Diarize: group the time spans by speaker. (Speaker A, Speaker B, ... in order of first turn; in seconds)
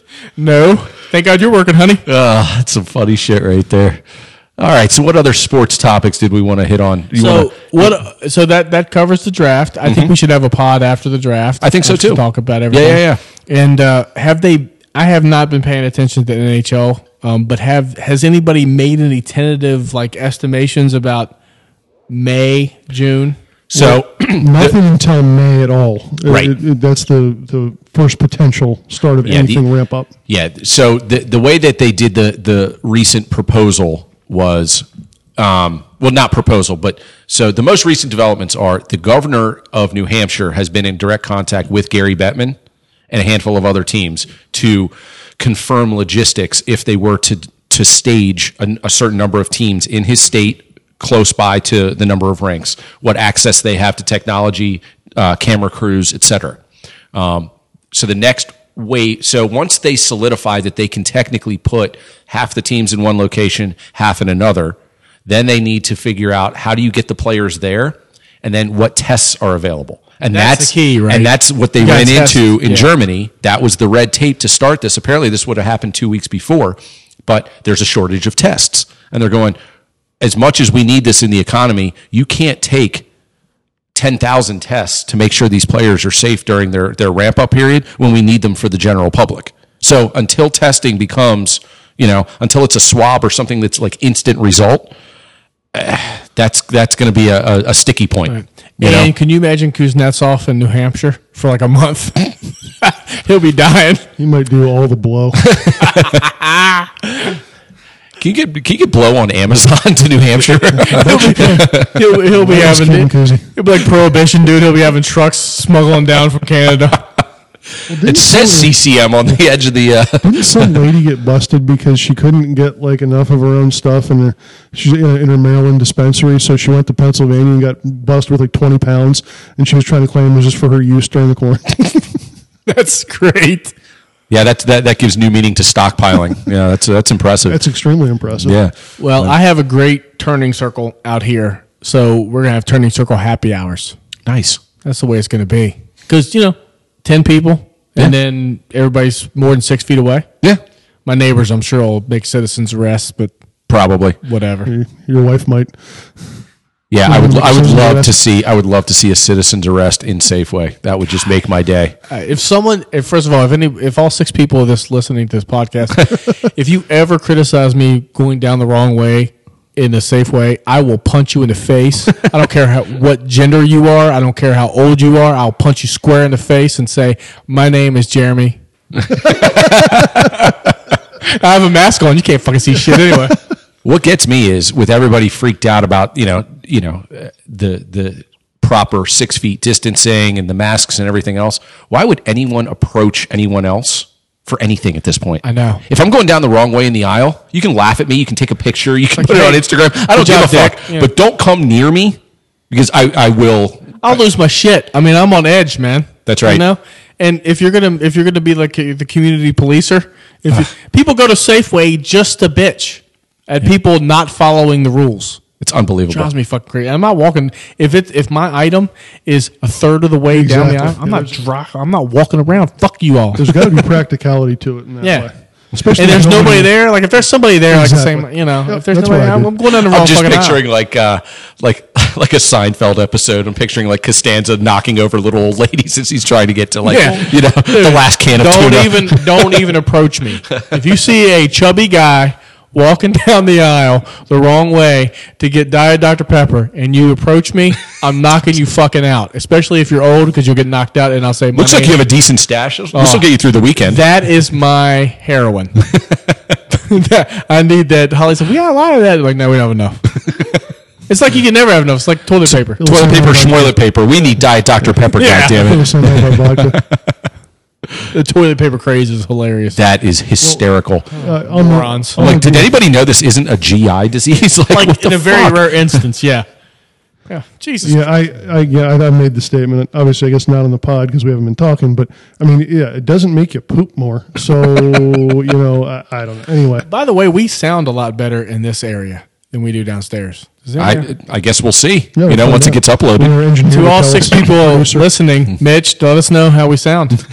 Speaker A: 0.4-2.0, 7.2-21.3, 22.1-23.4, 70.3-72.9, 98.3-104.1, 105.7-107.4, 110.8-117.0, 132.7-133.7, 139.0-144.0, 144.8-150.3, 151.1-153.3, 154.2-154.7, 162.1-178.6, 179.1-180.6, 181.2-183.4, 195.4-195.8, 199.2-201.1, 204.0-215.4, 216.1-223.9, 225.0-225.3, 225.9-230.6, 236.8-252.0, 252.9-253.3, 253.8-255.8, 256.7-260.1, 261.1-262.9, 265.2-266.3, 268.1-269.8, 271.1-272.2, 274.7-276.5, 277.3-278.1, 286.9-291.1, 293.7-297.2
Speaker B: 2.0-4.0, 4.6-7.9, 9.9-10.1, 11.6-13.2, 23.7-24.8, 26.3-26.5, 29.2-29.6, 30.3-34.9, 35.4-42.6, 43.1-56.6, 57.1-79.6, 80.2-83.1, 83.9-94.9, 95.7-99.1, 105.6-106.2, 108.2-112.0, 118.0-120.7, 134.3-137.6, 138.4-139.3, 144.3-144.6, 153.7-154.2, 156.9-161.9, 179.1-180.1, 183.8-202.2, 202.7-204.0, 206.3-206.7, 215.6-216.3, 229.8-239.4, 251.6-254.0, 262.5-266.1, 269.8-271.1, 272.2-275.7, 290.8-293.4
Speaker C: 23.7-30.1, 104.2-105.5, 110.9-111.7, 112.3-113.5, 117.9-118.7, 120.2-132.2, 137.5-138.6, 154.7-155.8, 157.1-158.1, 220.3-221.4, 223.4-226.7, 227.7-229.5, 262.8-263.8, 265.5-266.8, 271.2-272.8, 277.8-286.9, 292.2-295.1